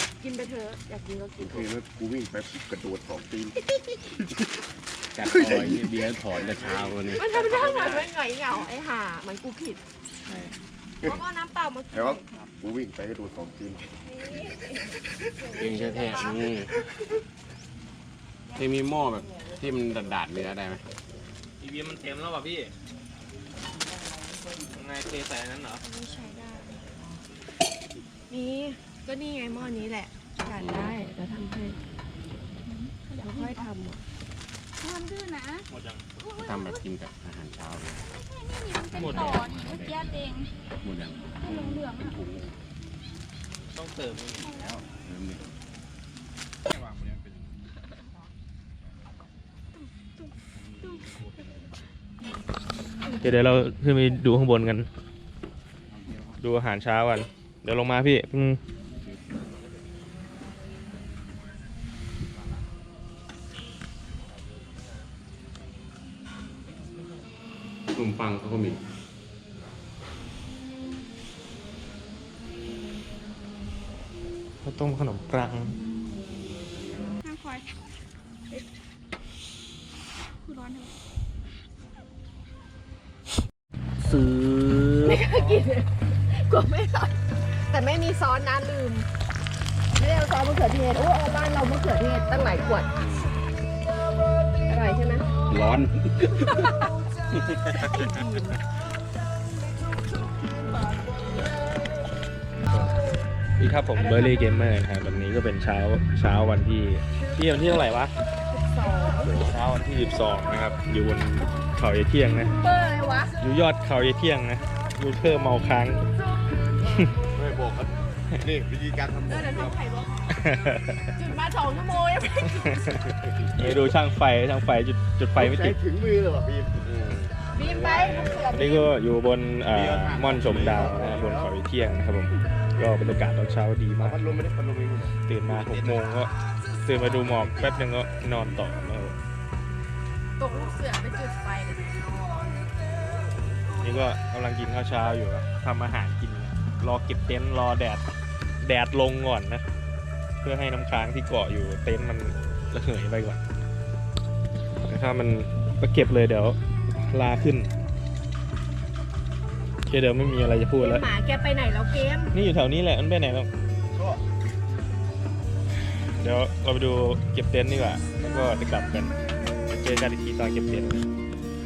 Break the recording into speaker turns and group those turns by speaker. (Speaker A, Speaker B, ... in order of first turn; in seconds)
Speaker A: 0.2-1.7, 7.2-9.8, 11.0-12.3, 14.1-16.4, 25.8-26.7, 28.3-31.8, 33.2-34.0, 85.0-87.2, 87.7-89.1, 90.0-93.0, 94.7-95.3, 97.8-98.6, 103.9-104.4, 108.5-109.5, 112.5-113.3, 119.3-120.5, 121.1-123.2, 127.5-128.9, 140.4-142.3, 160.8-162.3
Speaker B: 1.4-3.6, 5.2-5.9, 11.9-13.8, 117.3-119.8, 125.3-127.2, 129.7-131.5, 134.0-135.9, 137.4-137.8
Speaker C: 5.1-7.3, 15.5-16.7, 18.5-20.8, 30.6-30.9, 36.4-38.1, 38.9-40.1, 40.8-42.5, 44.1-45.5, 46.6-47.6, 50.5-51.8, 55.9-56.4, 59.0-59.3, 67.9-68.8, 93.0-93.3, 95.5-96.7, 97.3-98.1, 127.1-128.4, 129.9-130.8, 137.2-137.7
Speaker D: 7.6-7.9, 21.6-22.7, 24.7-25.8, 35.7-36.0, 38.9-39.4, 43.7-44.2, 53.2-54.9, 56.4-58.6, 74.6-75.8, 84.0-85.2, 103.6-108.1, 109.3-112.5, 113.4-116.0, 120.4-120.9, 123.5-125.8, 128.5-134.3, 135.3-136.3, 136.8-139.2, 143.8-148.0, 148.6-149.7, 150.4-153.4, 154.8-157.7, 159.9-161.1, 162.3-163.5, 166.2-171.0
Speaker E: 26.2-26.5, 32.6-33.7, 34.8-35.7, 36.2-36.8, 38.3-40.5, 41.4-42.2, 44.3-44.8, 50.8-51.1, 77.2-77.7, 80.4-80.9